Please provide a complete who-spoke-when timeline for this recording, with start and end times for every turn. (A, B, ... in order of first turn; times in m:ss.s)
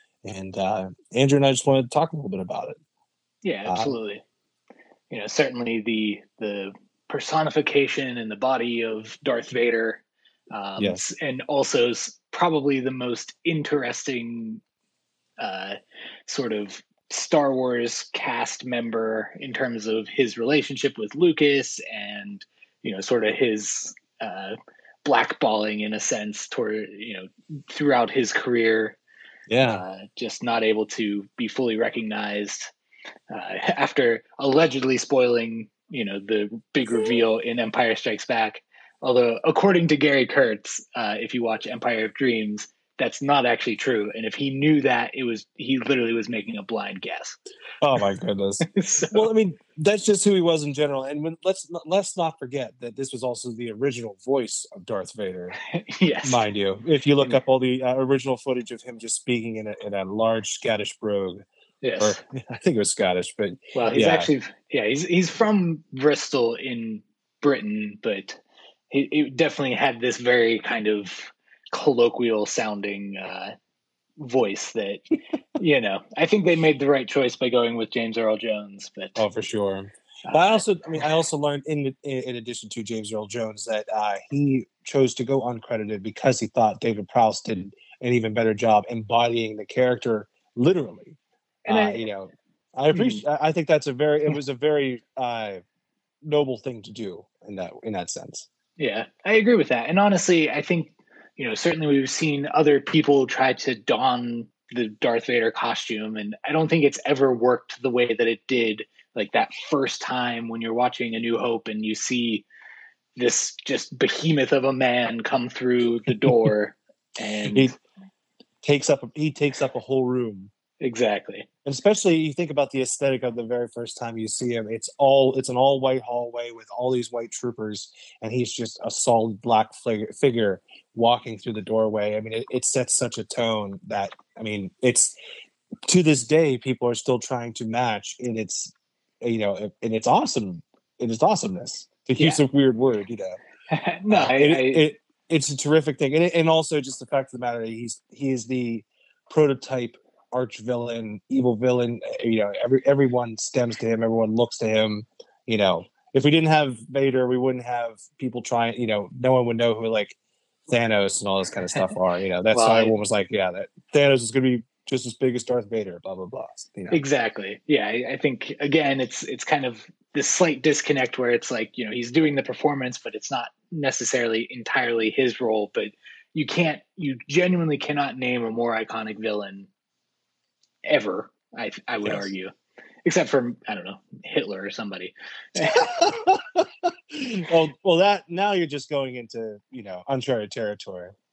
0:00.2-0:02.8 A
0:03.4-0:04.2 B
0:03.6-0:03.9 A
0:05.1-0:14.6 B
0:10.8-0:11.0 A
0:15.4-0:15.8 B
0:16.3-0:29.0 B
0:29.5-0:29.8 A
0:29.6-0:32.7 B
0:33.3-0:47.4 B
0:47.8-0:55.6 A
0:48.6-0:49.3 B
0:55.6-0:56.5 B
0:56.2-1:01.4 A
1:01.8-1:02.2 B
1:02.0-1:04.3 A
1:03.7-1:13.5 B
1:14.2-1:19.2 B
1:19.2-1:31.2 A
1:20.3-1:20.6 B
1:31.7-1:32.0 B
1:31.7-1:35.6 A
1:32.9-1:33.2 B
1:36.2-1:38.5 A
1:38.8-1:52.5 B
1:53.2-1:57.7 B
1:58.6-2:00.5 A
2:00.8-2:01.5 B
2:01.6-2:15.2 A
2:15.9-2:23.4 A
2:22.2-2:22.4 B
2:23.7-2:24.9 B
2:24.1-2:40.2 A
2:40.7-2:47.0 A
2:42.5-2:43.0 B
2:46.9-2:59.7 B
3:00.8-3:02.5 B
3:02.0-3:02.3 A
3:03.0-3:06.2 B
3:05.6-3:11.1 A